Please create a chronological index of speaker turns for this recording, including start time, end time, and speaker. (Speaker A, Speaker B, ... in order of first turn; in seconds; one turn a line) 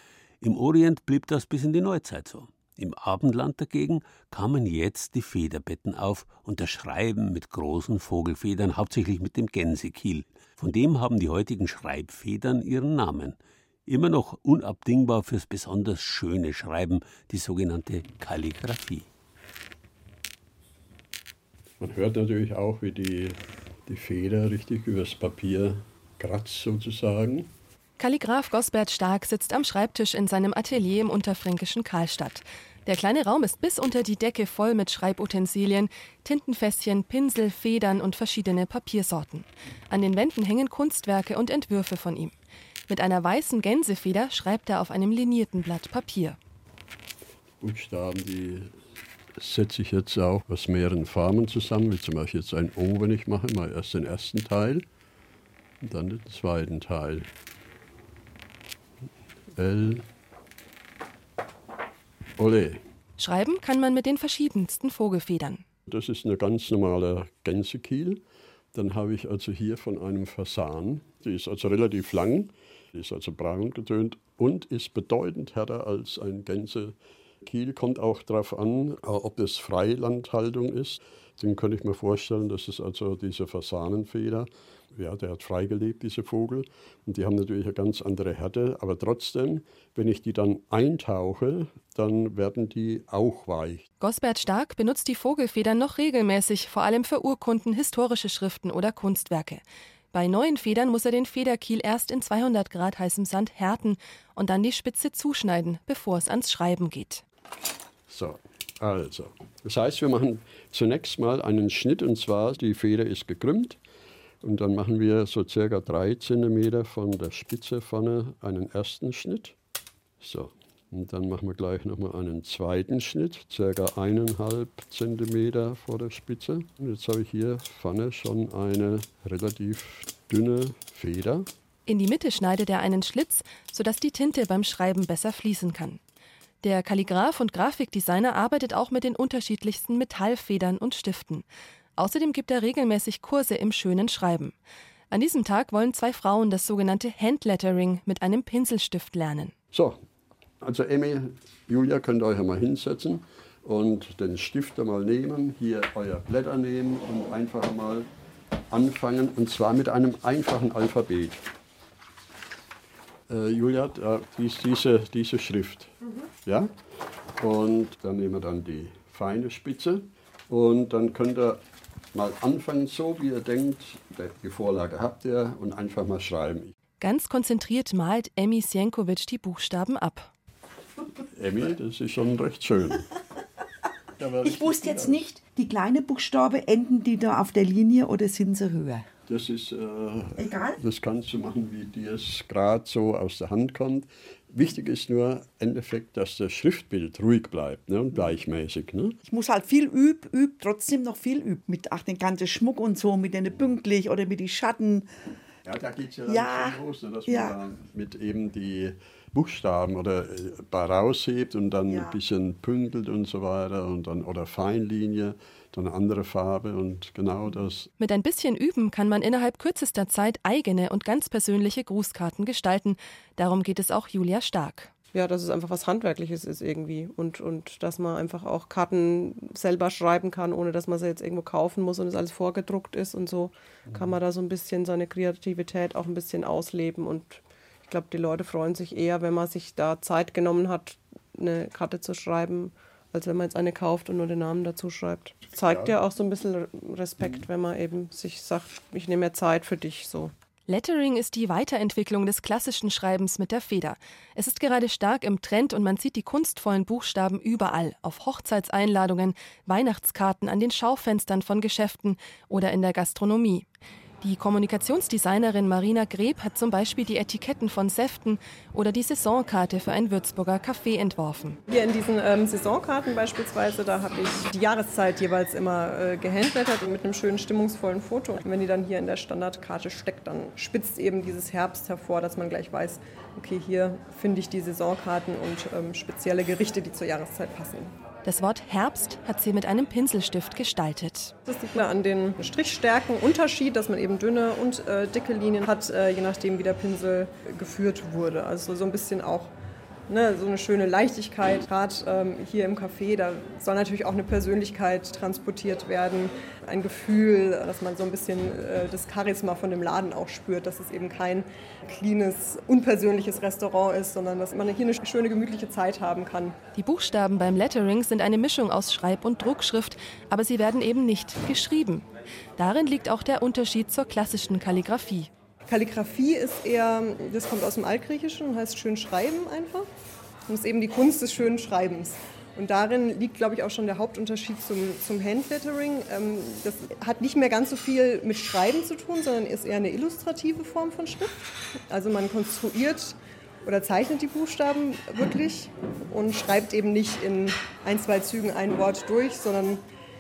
Speaker A: 0.4-13.4
Speaker A: 13.9-19.1
Speaker B: 21.8-27.5
Speaker C: 28.0-42.3
Speaker C: 42.9-46.4
Speaker B: 47.6-48.7
Speaker B: 49.4-54.9
Speaker B: 55.8-57.3
Speaker B: 59.5-60.0
Speaker B: 62.4-62.8
Speaker C: 63.2-65.6
Speaker B: 65.9-68.2
Speaker B: 68.7-93.8
Speaker C: 94.0-107.2
Speaker B: 108.1-113.8
Speaker B: 114.4-119.6
Speaker B: 120.2-131.5
Speaker C: 131.9-136.0
Speaker C: 136.6-141.5
Speaker C: 142.0-144.6
Speaker C: 145.1-149.5
Speaker B: 149.7-150.0
Speaker B: 150.6-158.1
Speaker B: 158.7-161.4
Speaker B: 163.3-165.9
Speaker B: 166.4-166.8
Speaker B: 167.3-171.6
Speaker B: 172.1-176.7
Speaker C: 177.0-180.3
Speaker B: 181.3-183.1
Speaker B: 184.2-185.2
Speaker D: 184.4-189.1
Speaker B: 189.3-199.2
Speaker D: 190.4-190.8
Speaker D: 199.2-205.1
Speaker B: 205.7-217.9
Speaker D: 206.3-207.6
Speaker D: 211.9-212.2
Speaker C: 218.0-224.9
Speaker E: 225.1-250.3
Speaker B: 245.7-245.9
Speaker C: 250.7-263.7
Speaker C: 264.2-271.6
Speaker E: 271.7-287.9
Speaker C: 288.2-291.4
Speaker E: 291.5-299.5
Speaker E: 300.1-316.6
Speaker C: 316.8-322.1
Speaker C: 322.6-325.3
Speaker E: 325.7-329.9
Speaker E: 330.5-341.4
Speaker E: 341.9-349.8